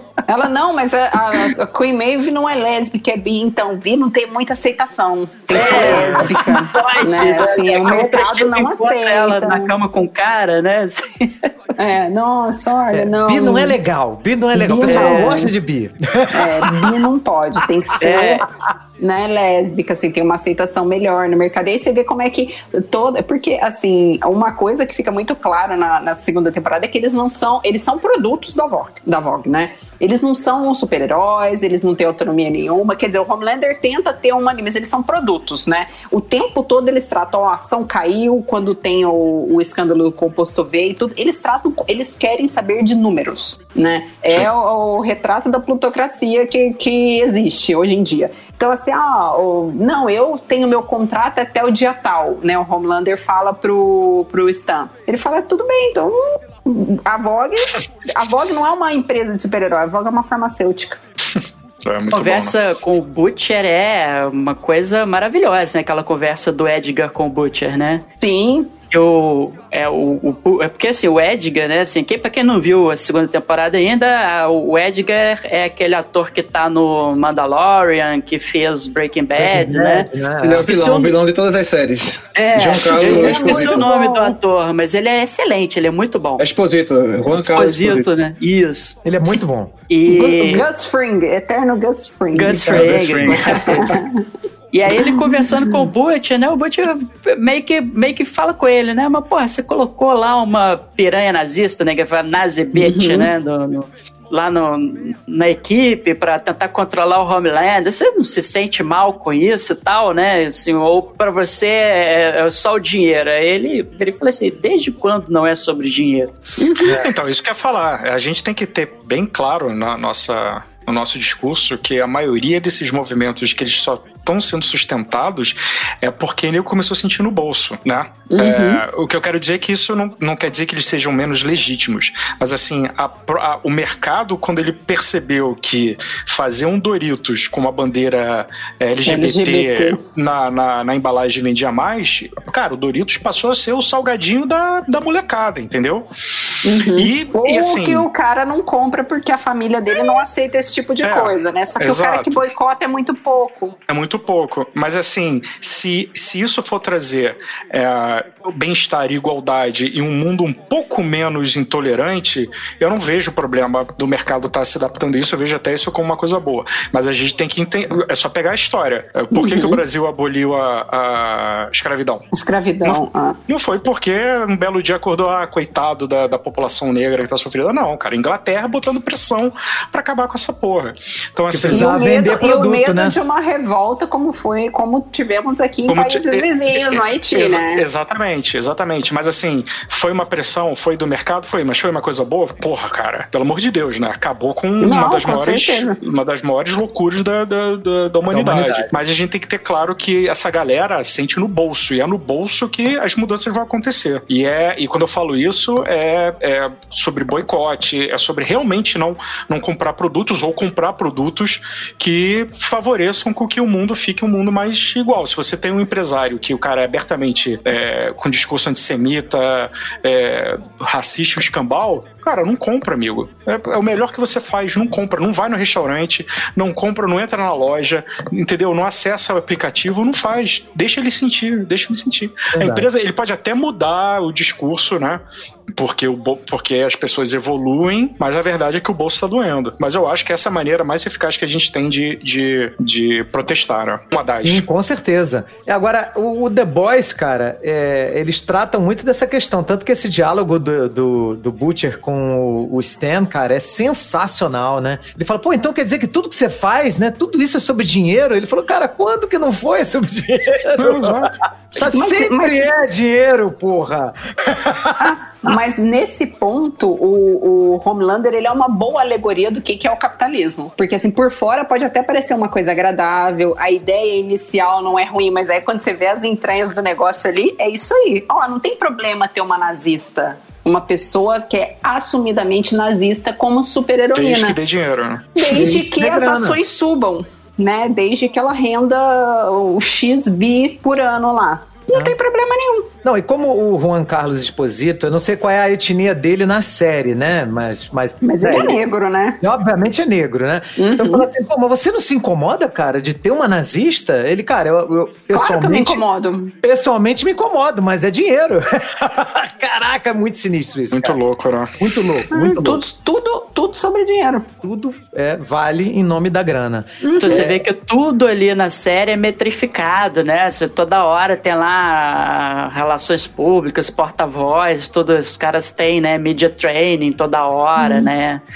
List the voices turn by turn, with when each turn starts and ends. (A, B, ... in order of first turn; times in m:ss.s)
0:00.3-0:09.7 A
0:05.5-0:11.4 B
0:05.7-0:06.3 C
0:11.8-0:13.8 A
0:12.9-0:17.0 D
0:14.6-0:15.5 A
0:14.8-0:15.5 B
0:16.3-0:18.4 A
0:18.0-0:18.4 B
0:19.0-1:01.0 A
1:01.8-1:02.6 C
1:02.1-1:08.0 B
1:08.2-1:08.7 A
1:08.9-1:21.2 B
1:19.4-1:20.7 D
1:20.4-1:23.9 E
1:22.3-1:26.4 B
1:23.0-1:24.3 A
1:26.4-1:28.1 E
1:27.3-1:28.9 B
1:29.0-1:29.7 D
1:29.9-1:30.7 B
1:30.0-1:34.2 A
1:32.3-1:33.9 B
1:32.5-1:33.9 E
1:34.7-1:56.3 B
1:34.9-1:35.8 A
1:42.7-1:43.3 A
1:56.6-1:57.0 A
1:56.8-2:26.1 C
2:08.3-2:08.8 A
2:19.0-2:20.0 A
2:26.6-2:33.7 A
2:26.9-2:28.1 C
2:31.0-2:32.4 C
2:33.9-2:52.2 C
2:49.3-2:49.8 A
2:52.3-2:53.4 A
2:52.8-3:01.9 C
3:01.5-3:03.1 D
3:01.7-3:07.8 A
3:05.9-3:55.2 C
3:14.8-3:16.0 A
3:18.2-3:18.9 D
3:52.5-3:52.9 D
3:55.7-4:04.6 C
4:04.4-4:25.1 D
4:20.8-4:21.3 C
4:21.9-4:22.7 A
4:25.0-4:44.6 A
4:44.1-4:45.7 C
4:45.4-4:52.9 A
4:45.5-4:46.6 D
4:53.0-4:58.8 D
4:58.2-4:59.4 A
4:59.4-5:06.0 D
5:00.8-5:01.2 A
5:05.3-5:06.5 A
5:06.6-5:11.2 D
5:10.9-5:11.8 C
5:11.8-5:12.8 D
5:12.3-5:14.5 A
5:14.6-5:17.5 D
5:17.0-5:17.6 A
5:17.2-5:28.4 B
5:27.8-5:28.1 A